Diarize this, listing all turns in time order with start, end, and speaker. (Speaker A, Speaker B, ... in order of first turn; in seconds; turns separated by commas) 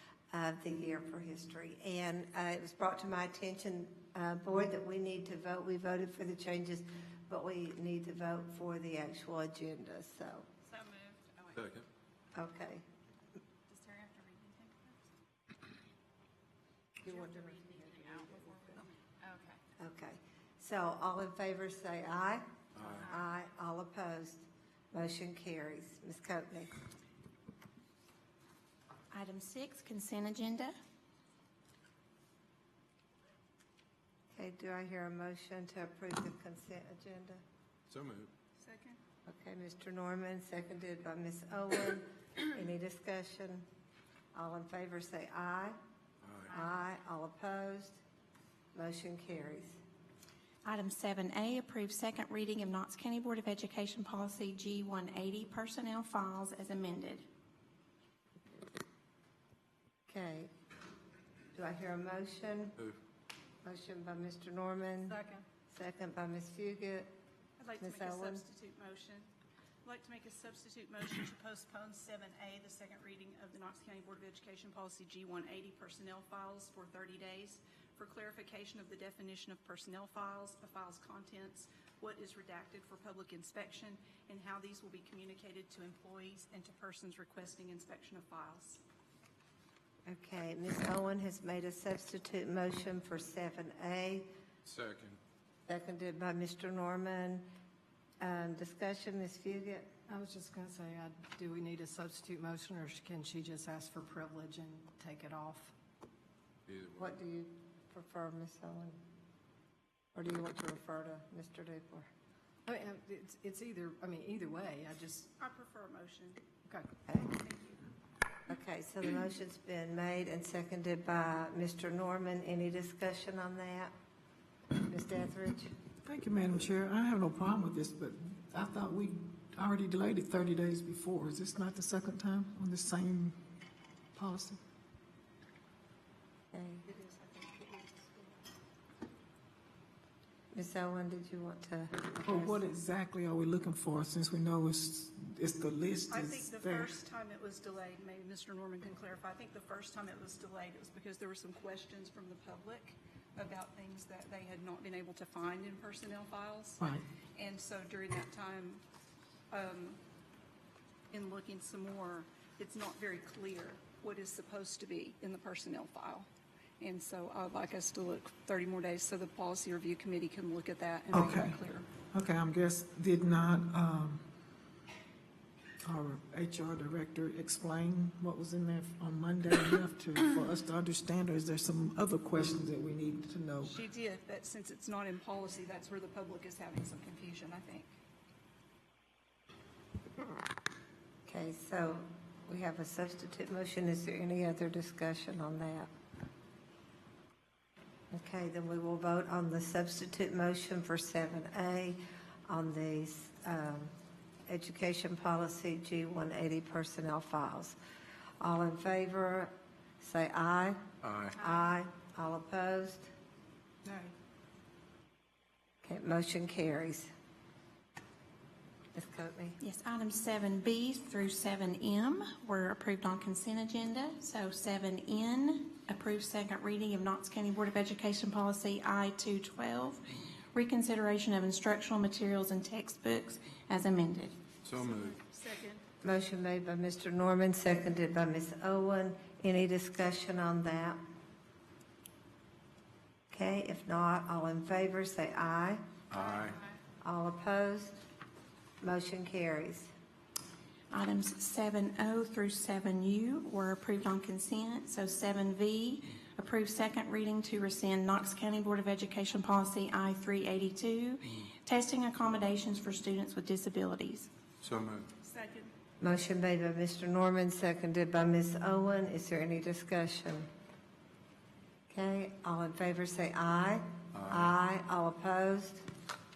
Speaker A: 0.3-10.5, Speaker B: 10.7-11.1, Speaker C: 11.5-11.8, Speaker A: 12.3-12.8, Speaker B: 13.7-14.9, Speaker A: 17.0-18.8, Speaker B: 18.8-19.4, Speaker A: 19.8-26.8, Speaker C: 22.8-23.0, Speaker D: 29.1-30.7, Speaker A: 34.3-37.4, Speaker C: 37.9-38.3, Speaker B: 38.6-39.0, Speaker A: 39.3-43.6, Speaker A: 44.3-45.8, Speaker C: 46.2-46.6, Speaker A: 46.5-48.0, Speaker A: 48.7-49.8, Speaker D: 50.6-57.2, Speaker A: 60.1-60.5, Speaker A: 61.5-62.8, Speaker A: 63.6-67.1, Speaker E: 65.1-65.4, Speaker B: 67.6-69.3, Speaker A: 67.8-68.4, Speaker B: 69.8-88.8, Speaker A: 90.0-94.3, Speaker C: 94.6-95.2, Speaker A: 95.7-97.5, Speaker A: 98.2-99.9, Speaker E: 100.1-105.7, Speaker C: 106.7-107.1, Speaker A: 107.0-109.0, Speaker A: 110.1-112.1, Speaker E: 112.7-115.3, Speaker B: 115.4-116.4, Speaker B: 117.2-117.8, Speaker A: 118.5-123.9, Speaker A: 124.7-125.7, Speaker F: 126.0-133.4, Speaker F: 134.1-134.6, Speaker A: 136.5-136.8, Speaker B: 136.8-138.4, Speaker A: 140.5-142.6, Speaker F: 142.2-146.9, Speaker B: 146.1-158.8, Speaker B: 159.5-160.0, Speaker B: 161.1-166.3, Speaker B: 166.8-171.9, Speaker F: 171.1-174.2, Speaker F: 175.8-183.7, Speaker B: 183.6-187.9, Speaker A: 191.2-195.9, Speaker A: 198.1-203.9, Speaker A: 204.5-207.8, Speaker A: 208.4-210.8, Speaker C: 211.0-211.3, Speaker A: 211.4-213.1, Speaker B: 213.8-214.1, Speaker A: 215.8-217.1, Speaker A: 218.9-219.6, Speaker D: 219.6-234.3, Speaker C: 234.6-235.2, Speaker B: 234.8-235.8, Speaker A: 236.0-241.0, Speaker A: 243.3-245.8, Speaker C: 246.1-246.6, Speaker A: 247.0-248.0, Speaker A: 248.8-249.9, Speaker D: 250.9-264.3, Speaker C: 264.6-265.1, Speaker B: 265.2-265.7, Speaker A: 266.0-270.5, Speaker A: 271.9-275.8, Speaker C: 274.1-274.5